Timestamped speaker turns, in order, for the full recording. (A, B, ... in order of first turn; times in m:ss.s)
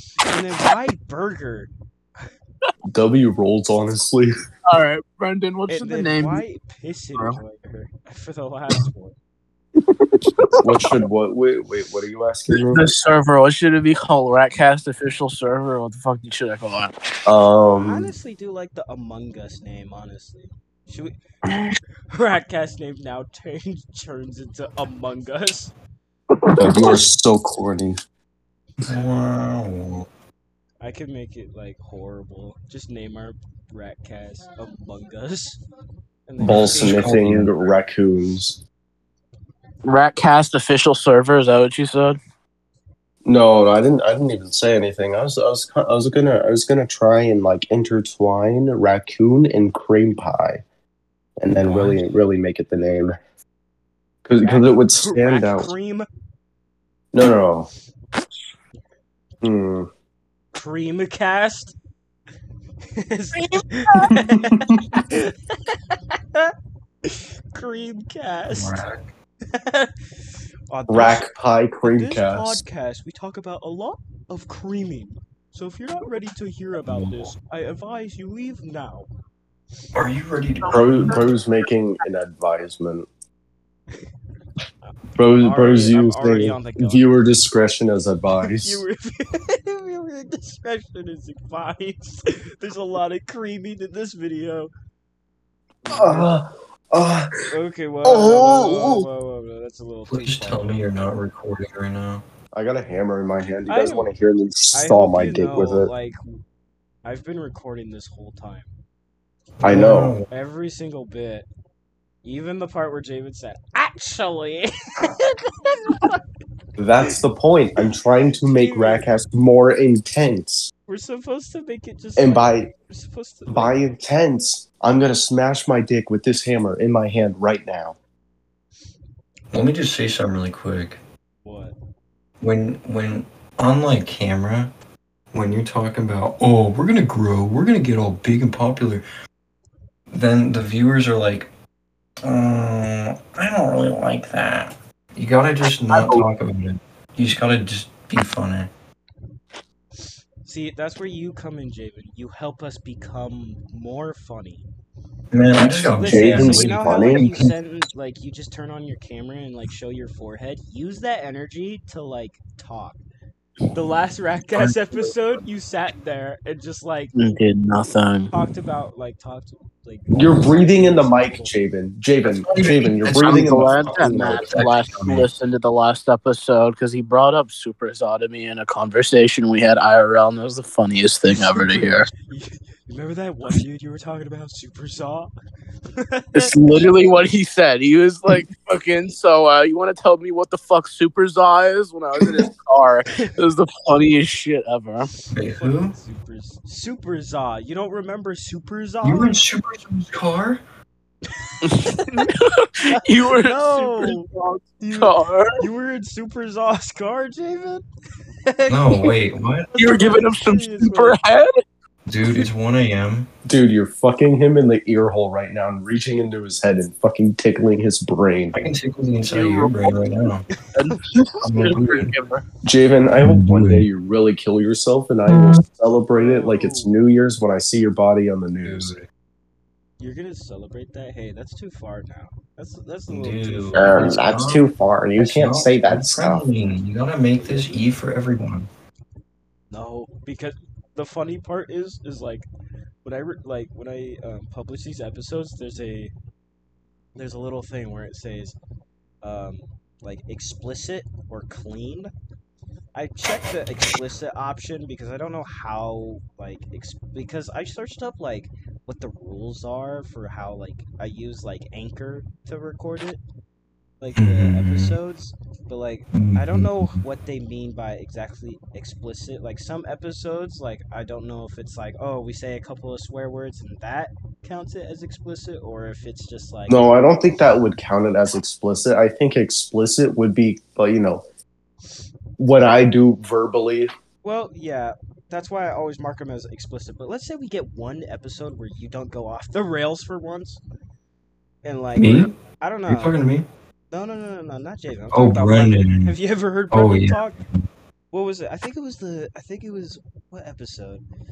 0:00.2-0:01.7 A
0:02.9-0:04.3 B
0:04.7-0:06.4 C
0:05.7-0:09.2 A
0:09.8-0:10.9 C
0:10.6-0:13.0 B
0:12.5-0:16.9 C
0:17.3-0:18.1 B
0:17.8-0:21.2 A
0:21.5-0:21.8 C
0:22.1-0:25.7 A
0:26.4-0:27.0 C
0:26.6-0:28.0 B
0:28.8-0:30.1 D
0:30.8-0:35.6 A
0:36.3-0:37.2 A
0:36.4-0:38.6 B
0:36.4-0:37.5 D
0:39.8-0:42.2 C
0:43.2-0:50.6 B
0:51.4-0:53.2 B
0:51.5-0:52.0 D
0:54.2-0:55.7 B
0:54.4-0:56.1 A
0:57.1-0:57.7 B
0:59.4-0:59.9 B
1:00.6-1:01.7 A
1:03.0-1:06.5 A
1:03.4-1:04.1 C
1:04.0-1:04.8 B
1:07.1-1:08.8 A
1:08.5-1:09.1 D
1:09.5-1:09.9 A
1:10.7-1:11.3 A
1:10.9-1:12.6 B
1:11.8-1:19.1 A
1:16.8-1:17.3 D
1:19.9-1:21.2 D
1:20.6-1:21.3 C
1:20.7-1:23.1 B
1:25.2-1:28.8 B
1:25.4-1:27.1 A
1:28.4-1:34.7 A
1:35.8-1:36.4 A
1:35.9-1:37.3 B
1:37.5-1:40.8 A
1:38.0-1:39.1 B
1:40.1-1:42.2 D
1:42.5-1:45.9 B
1:43.7-1:44.1 A
1:44.7-1:46.2 A
1:47.0-1:48.7 A
1:49.6-1:50.3 D
1:49.6-1:50.2 B
1:50.3-1:51.5 A
1:52.2-1:56.2 A
1:56.8-2:00.7 B
1:58.4-1:59.1 A
2:00.9-2:03.8 A
2:02.2-2:02.7 B
2:03.5-2:08.0 B
2:09.5-2:11.0 D
2:11.4-2:11.8 A
2:12.4-2:14.7 D
2:15.3-2:19.0 D
2:20.1-2:21.5 D
2:22.2-2:28.7 D
2:25.9-2:26.3 C
2:30.5-2:34.7 A
2:35.3-2:37.5 D
2:35.9-2:37.3 B
2:35.9-2:43.0 A
2:43.7-2:47.2 A
2:44.6-2:45.4 D
2:47.2-2:48.3 C
2:48.3-2:51.5 A
2:50.1-2:54.5 B
2:52.2-2:55.3 D
2:53.1-3:02.1 C
3:02.3-3:05.3 A
3:06.0-3:06.9 A
3:06.4-3:15.1 C
3:15.3-3:16.0 D
3:15.5-3:19.3 A
3:19.0-3:20.6 D
3:21.4-3:22.3 A
3:21.6-3:25.6 C
3:22.8-3:24.3 A
3:24.8-3:27.8 A
3:28.5-3:29.1 A
3:28.7-3:29.8 D
3:29.7-3:31.2 A
3:29.8-3:31.6 C
3:32.1-3:33.3 D
3:33.5-3:38.6 B
3:38.5-3:40.5 D
3:39.2-3:40.1 C
3:40.8-3:42.4 C
3:41.4-3:42.1 D
3:42.6-3:49.0 B
3:43.2-3:43.9 D
3:45.3-3:45.6 D
3:46.2-3:46.9 A
3:48.6-3:49.1 D
3:50.0-3:54.2 A
3:53.1-3:58.7 D
3:53.8-3:56.4 B
3:57.4-3:57.8 A
3:59.7-4:02.5 A
4:03.0-4:06.1 A
4:07.2-4:08.6 A
4:09.2-4:12.1 A
4:13.0-4:23.2 A
4:24.0-4:36.8 A
4:24.2-4:25.0 D
4:26.1-4:27.0 D
4:36.7-4:41.2 B
4:42.4-4:43.9 B
4:44.2-4:50.6 A
4:51.6-4:53.2 A
4:52.0-4:52.4 D
4:52.9-4:53.5 D
4:53.9-4:57.4 A
4:55.1-4:56.2 D
4:56.7-4:57.6 D
4:58.1-5:01.0 A